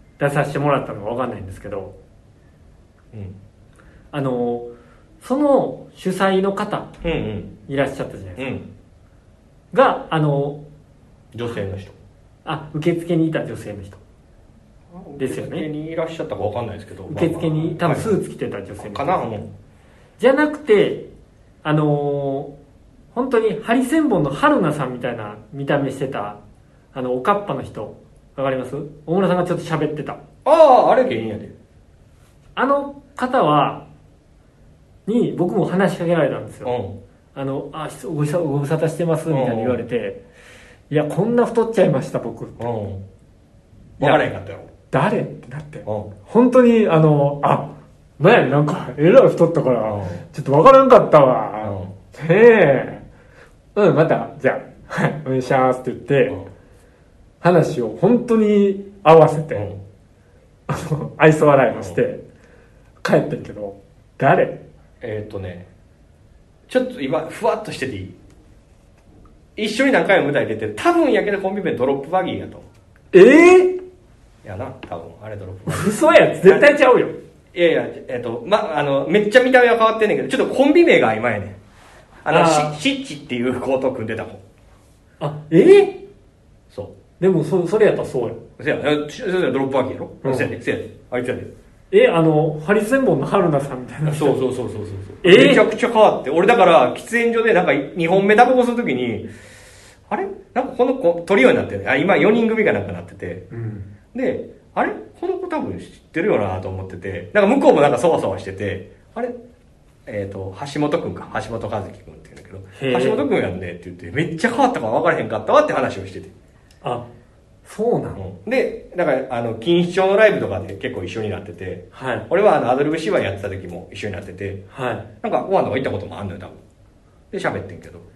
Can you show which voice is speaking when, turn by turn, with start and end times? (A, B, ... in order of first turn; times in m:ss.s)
0:00.2-0:02.0 A
0:04.1-0:04.7 A
0:05.2-0:07.0 A
0:07.0-0:07.5 B
0:07.7-0:08.5 A
0:08.4-0:08.7 B
0:09.7-0:10.6 A
0:11.3-0:12.0 B
0:12.4-0:14.0 A
0:14.9-0:18.2 B
0:15.2-0:15.7 A
0:17.1-0:19.4 A
0:18.8-0:19.5 B
0:20.2-0:21.1 A
0:21.6-0:22.5 A
0:23.1-0:26.4 A
0:26.9-0:30.2 A
0:30.4-0:31.5 B
0:32.6-0:33.9 A
0:35.1-0:36.8 A
0:36.6-0:37.0 B
0:37.4-0:40.2 A
0:39.3-0:39.8 B
0:40.9-0:42.7 A
0:42.6-0:43.0 B
0:44.0-0:44.2 A
0:44.0-0:44.7 B
0:44.9-0:53.0 A
0:45.9-0:46.1 B
0:49.9-0:50.2 B
0:51.6-0:51.9 B
0:53.8-0:56.4 A
0:57.4-0:59.7 A
0:59.6-0:59.8 B
1:00.7-1:02.2 A
1:03.0-1:04.6 A
1:05.0-1:05.7 B
1:06.7-1:08.2 B
1:09.6-1:12.7 B
1:13.1-1:13.8 A
1:14.4-1:16.7 B
1:15.7-1:17.2 A
1:17.5-1:21.6 B
1:22.2-1:24.4 B
1:22.3-1:22.8 A
1:25.2-1:26.0 A
1:26.7-1:27.0 B
1:27.2-1:28.4 A
1:28.6-1:31.5 B
1:30.2-1:30.5 A
1:31.9-1:34.4 A
1:34.0-1:39.3 B
1:35.2-1:35.7 A
1:40.1-1:43.4 B
1:43.5-1:43.9 A
1:44.1-1:49.4 B
1:50.1-1:56.3 B
1:52.8-1:53.2 A
1:57.6-1:58.2 A
1:58.2-2:04.6 B
2:01.9-2:02.3 A
2:04.7-2:05.1 A
2:05.2-2:06.6 B
2:07.3-2:08.0 B